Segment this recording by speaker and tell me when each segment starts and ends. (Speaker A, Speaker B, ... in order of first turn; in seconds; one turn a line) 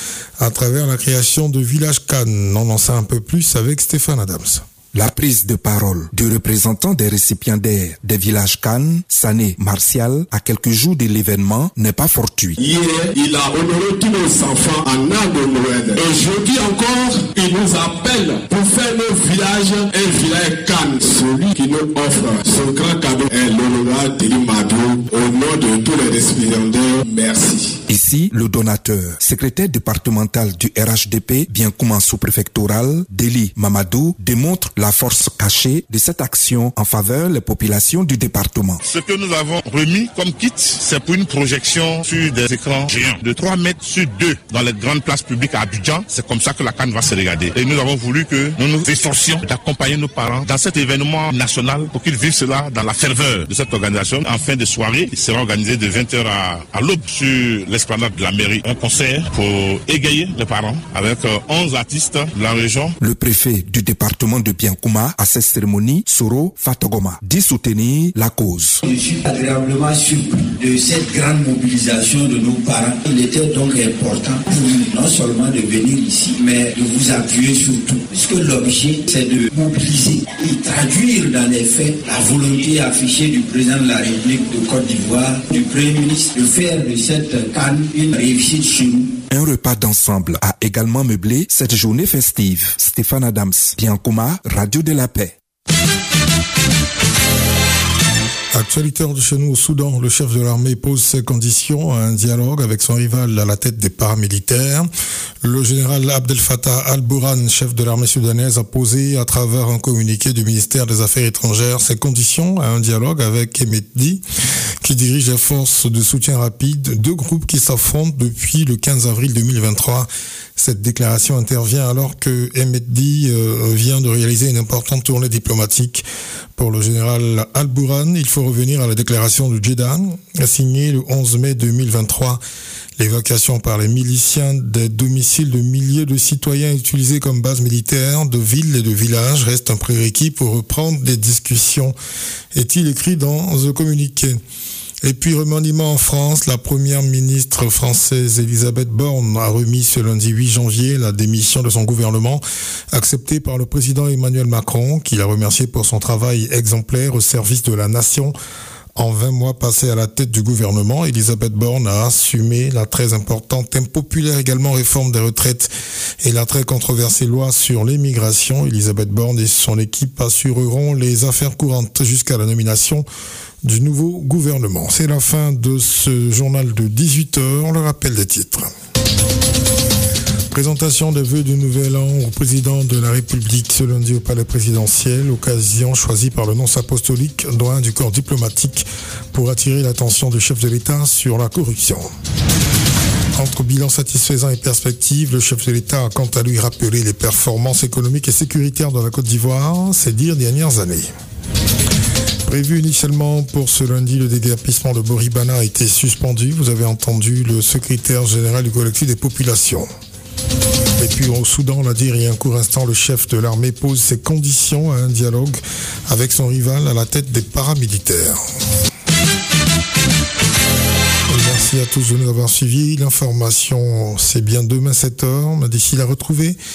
Speaker A: 0.4-4.6
Speaker B: 4.9-12.6
Speaker C: 12.6-27.8
Speaker B: 27.9-38.8
Speaker D: 38.8-63.0
Speaker B: 63.0-68.8
Speaker E: 68.8-89.2
Speaker B: 89.3-95.3
Speaker A: 98.5-104.9
Speaker A: 105.4-114.2
Speaker A: 114.8-126.0
Speaker A: 126.5-132.4
Speaker A: 133.0-141.9
Speaker A: 142.5-144.4
Speaker A: 145.0-152.4
Speaker A: 152.9-158.3
Speaker A: 158.9-165.7
Speaker A: 166.2-173.1
Speaker A: 173.6-178.7
Speaker A: 180.5-192.1
Speaker A: 193.3-201.1
Speaker A: 202.4-209.8
Speaker A: 211.0-218.4
Speaker A: 221.3-226.6